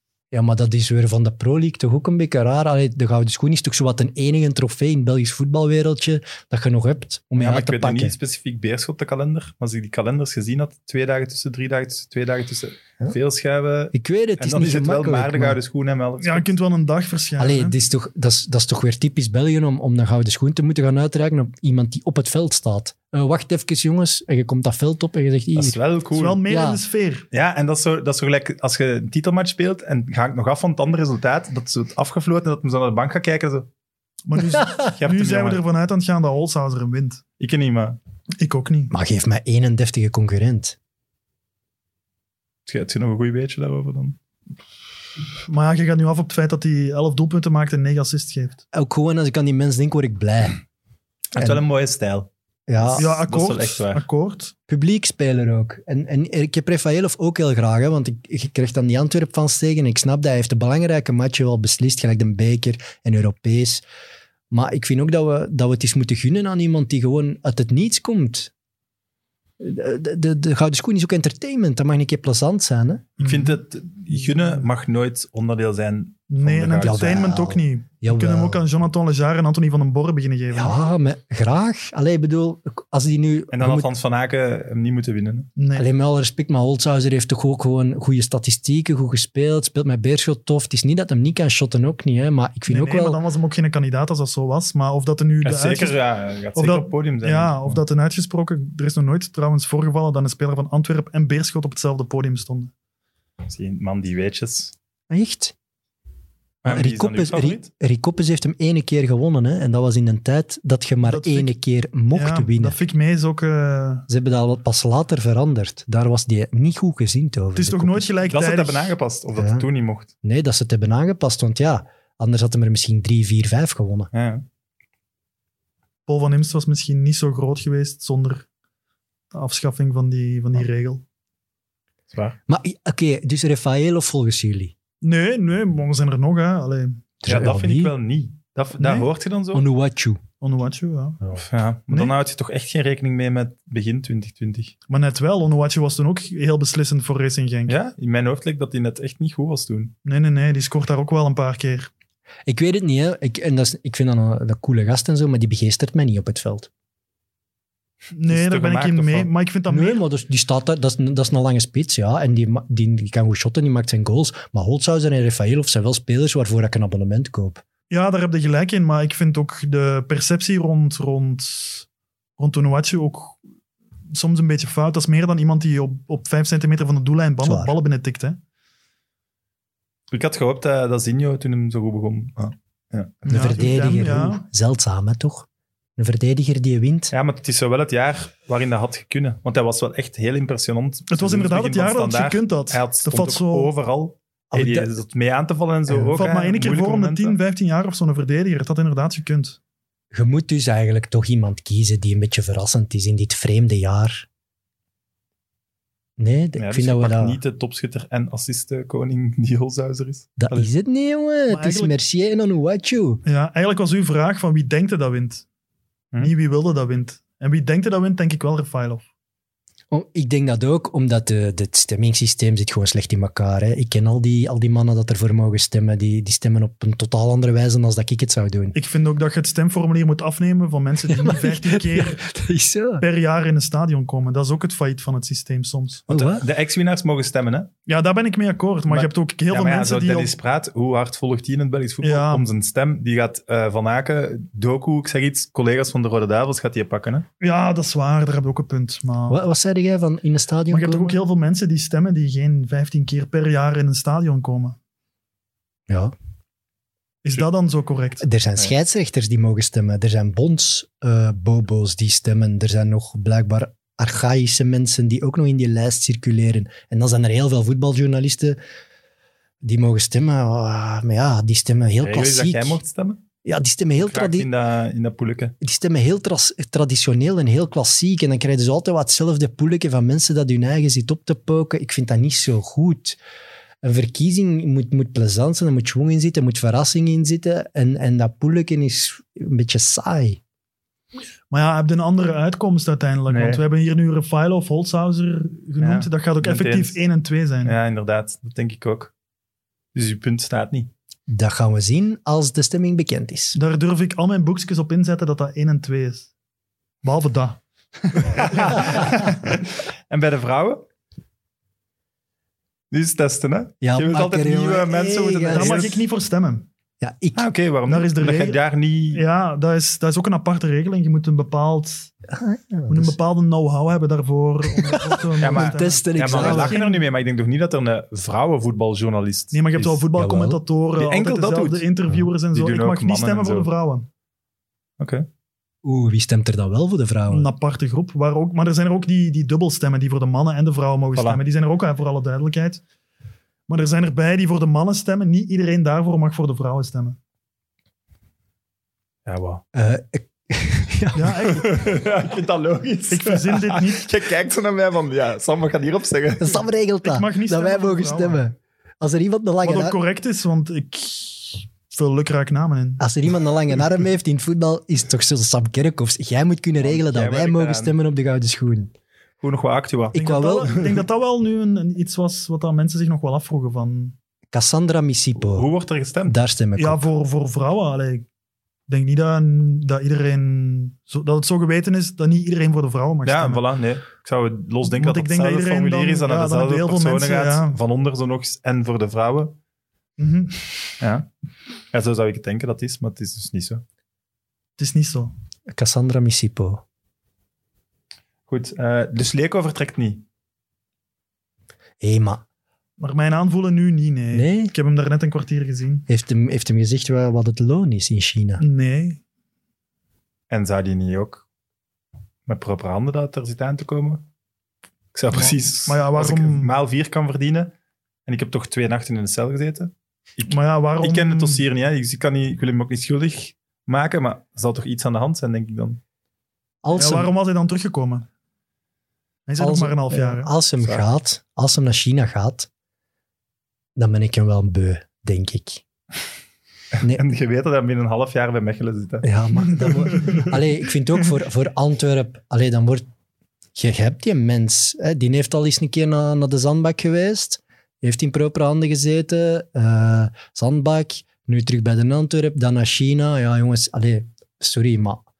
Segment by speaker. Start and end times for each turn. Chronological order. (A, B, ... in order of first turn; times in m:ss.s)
0:00.3-0:08.2 A
0:07.4-0:16.5 B
0:13.9-0:15.6 A
0:16.2-0:17.7 C
0:17.4-0:25.8 A
0:25.5-0:26.4 B
0:26.1-0:27.2 C
0:26.5-0:26.8 A
0:27.3-0:33.7 B
0:34.2-0:37.2 C
0:34.9-0:35.6 B
0:37.4-0:38.0 B
0:38.4-0:38.9 C
0:38.9-0:40.8 A
0:42.6-0:44.2 B
0:45.4-0:48.6 C
0:48.7-0:50.6 A
0:51.3-0:54.0 B
0:52.7-0:53.1 A
0:53.0-0:54.5 C
0:54.7-1:03.8 A
1:04.5-1:08.5 A
1:09.6-1:13.1 A
1:13.2-1:13.6 C
1:13.2-1:17.2 B
1:14.3-1:14.6 C
1:16.3-1:20.8 C
1:16.8-1:18.6 A
1:20.5-1:23.9 A
1:23.5-1:25.5 B
1:25.6-1:25.9 C
1:25.7-1:33.2 A
1:32.7-1:36.0 C
1:35.4-1:37.8 B
1:36.5-1:42.7 C
1:43.5-1:44.7 B
1:45.1-1:45.5 A
1:46.6-1:47.7 B
1:46.6-1:52.8 A
1:51.0-1:51.5 C
1:52.1-1:54.1 C
1:54.1-1:58.1 A
1:57.5-1:58.9 C
1:58.2-2:00.1 B
1:59.4-1:59.6 A
2:00.2-2:04.1 A
2:04.1-2:04.4 B
2:06.1-2:08.4 C
2:09.3-2:11.0 C
2:12.1-2:12.4 B
2:12.5-2:14.7 A
2:15.0-2:17.1 C
2:17.2-2:17.9 A
2:17.2-2:19.6 B
2:18.8-2:19.1 C
2:19.5-2:20.2 A
2:20.4-2:21.2 C
2:21.3-2:24.7 B
2:24.9-2:27.7 C
2:27.7-2:29.9 B
2:30.0-2:31.9 C
2:32.4-2:36.7 A
2:38.1-2:40.0 C
2:38.3-2:39.3 B
2:39.7-2:47.6 A
2:47.9-2:51.9 C
2:52.4-2:53.4 C
2:54.1-2:58.4 C
2:57.4-2:57.8 A
3:00.1-3:03.7 B
3:03.2-3:04.4 C
3:03.3-3:07.1 A
3:07.1-3:17.4 B
3:11.1-3:13.7 C
3:14.5-3:14.9 A
3:16.1-3:19.6 C
3:20.1-3:24.2 A
3:26.2-3:27.4 A
3:26.6-3:30.7 B
3:30.4-3:33.2 A
3:31.5-3:31.9 C
3:33.2-3:35.4 C
3:36.2-3:39.0 C
3:39.9-3:48.7 A
3:48.7-3:52.2 C
3:51.0-3:53.0 A
3:53.0-3:56.1 C
3:56.1-3:56.4 A
3:56.1-3:57.7 B
3:57.8-4:00.3 C
3:58.9-4:07.2 B
4:02.0-4:02.5 C
4:07.4-4:09.4 C
4:09.3-4:11.2 A
4:10.7-4:14.8 C
4:15.9-4:16.1 A
4:17.2-4:18.2 C
4:18.2-4:28.6 A
4:29.6-4:32.8 A
4:32.0-4:33.2 B
4:33.4-4:34.5 A
4:34.0-4:35.6 B
4:35.6-4:43.2 A
4:43.8-4:50.4 A
4:51.5-4:57.7 C
4:53.3-4:53.6 B
4:55.8-4:57.0 B
4:57.6-4:59.1 B
4:59.9-5:00.9 B
5:01.3-5:03.6 A
5:03.5-5:06.3 C
5:07.0-5:09.2 C
5:08.4-5:09.5 B
5:10.1-5:10.8 B
5:12.9-5:16.0 B
5:13.8-5:15.9 A
5:15.5-5:16.7 C
5:17.0-5:17.4 A
5:17.3-5:19.2 B
5:17.9-5:18.6 C
5:19.1-5:22.1 C
5:22.3-5:23.2 A
5:22.9-5:27.0 C
5:24.6-5:26.8 A
5:25.4-5:30.0 B
5:29.5-5:34.1 C
5:30.1-5:30.6 A
5:31.0-5:31.8 B
5:32.5-5:33.7 B
5:35.0-5:35.3 B
5:35.8-5:37.5 A
5:37.3-5:42.8 C
5:41.1-5:41.4 B
5:43.7-5:47.2 C
5:49.2-5:49.6 B
5:49.7-5:51.5 A
5:51.1-5:51.8 C
5:51.5-5:56.6 B
5:53.1-5:54.1 C
5:56.4-6:00.0 A
5:57.0-5:58.4 C
5:59.6-6:03.0 C
6:03.0-6:08.9 A
6:06.8-6:08.0 B
6:09.4-6:10.2 B
6:10.1-6:10.8 A
6:10.1-6:14.2 C
6:14.5-6:15.7 A
6:15.4-6:16.4 B
6:16.3-6:17.1 A
6:16.8-6:18.2 C
6:18.9-6:23.6 C
6:23.2-6:29.6 B
6:24.9-6:27.8 C
6:30.2-6:30.7 C
6:31.0-6:31.3 B
6:31.9-6:33.8 B
6:34.8-6:35.3 C
6:35.7-6:36.8 A
6:38.5-6:40.2 B
6:42.0-6:42.4 A
6:43.0-6:46.1 C
6:44.3-6:44.7 A
6:46.1-6:48.6 A
6:48.6-6:49.2 C
6:50.5-6:51.4 B
6:52.4-6:54.2 B
6:55.1-6:57.7 B
6:55.4-6:56.7 C
6:58.2-7:06.0 B
7:00.5-7:01.6 C
7:06.8-7:07.3 A
7:07.0-7:08.3 C
7:09.5-7:10.5 C
7:09.6-7:12.7 A
7:14.0-7:15.8 A
7:17.0-7:19.3 B
7:19.2-7:23.0 A
7:23.7-7:35.2 A